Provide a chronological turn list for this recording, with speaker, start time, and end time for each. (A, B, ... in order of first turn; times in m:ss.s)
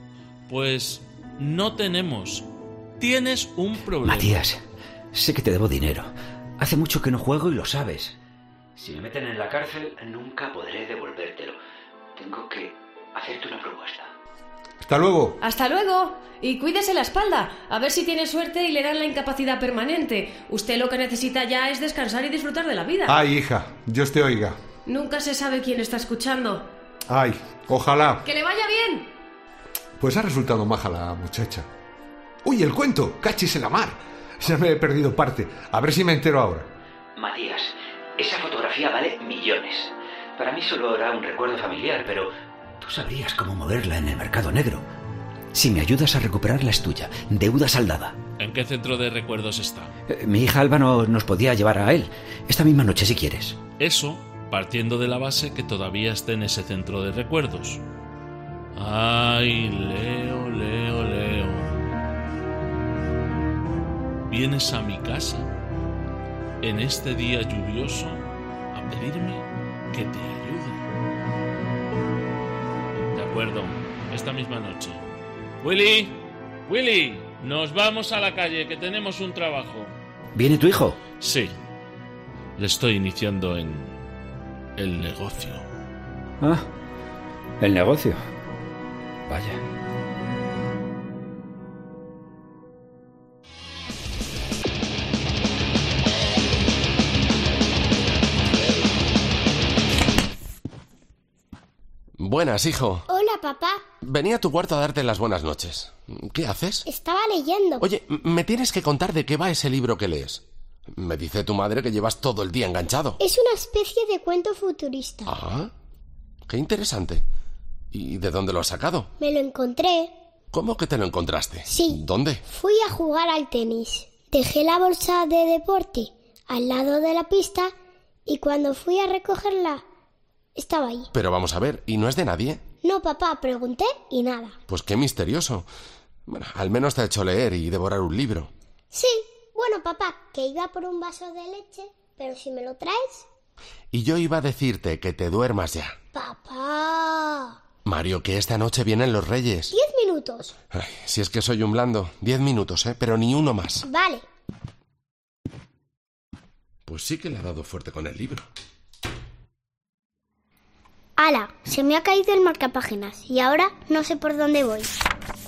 0:00.5-0:02.5 A
0:03.0-0:04.4 A
0:04.0-0:04.6 B
0:05.1-0:08.2 B
0:08.8-0:11.6 B
0:12.2-0:14.1 B
0:14.8-0:15.4 C
0:15.4-0:23.2 D
0:23.1-0:24.6 C
0:24.9-0:26.7 D
0:27.1-0:28.2 C
0:28.2-0:29.1 D
0:30.0-0:31.7 C
0:32.4-0:36.7 C
0:37.2-0:44.8 B
0:45.5-0:48.2 B
0:48.4-0:49.9 A
0:50.1-0:53.6 B
0:53.8-0:57.8 A
0:58.8-1:01.8 A
1:04.3-1:05.5 A
1:06.6-1:10.9 A
1:13.1-1:15.0 A
1:15.6-1:19.9 A
1:20.4-1:21.0 B
1:21.2-1:21.5 A
1:22.6-1:24.0 A
1:24.8-1:25.7 A
1:26.4-1:26.7 B
1:27.6-1:28.2 B
1:29.3-1:29.6 B
1:42.2-1:43.0 E
1:43.1-1:43.8 F
1:44.0-1:46.8 E
1:46.8-1:47.9 F
1:47.8-1:53.2 E
1:53.2-1:55.4 F
1:55.3-1:55.7 E
1:56.5-1:57.2 E
1:57.9-1:59.1 E
1:59.2-2:00.1 F
2:00.5-2:02.4 E
2:01.6-2:07.7 F
2:08.3-2:09.8 F
2:10.6-2:11.1 F
2:11.1-2:12.6 E
2:12.8-2:14.6 F
2:14.7-2:15.7 E
2:16.3-2:18.5 E
2:18.9-2:23.3 F
2:23.9-2:26.0 E
2:26.1-2:27.6 F
2:27.8-2:29.7 E
2:29.7-2:30.6 F
2:30.7-2:33.8 E
2:33.8-2:34.2 F
2:36.9-2:38.4 E
2:41.2-2:44.9 F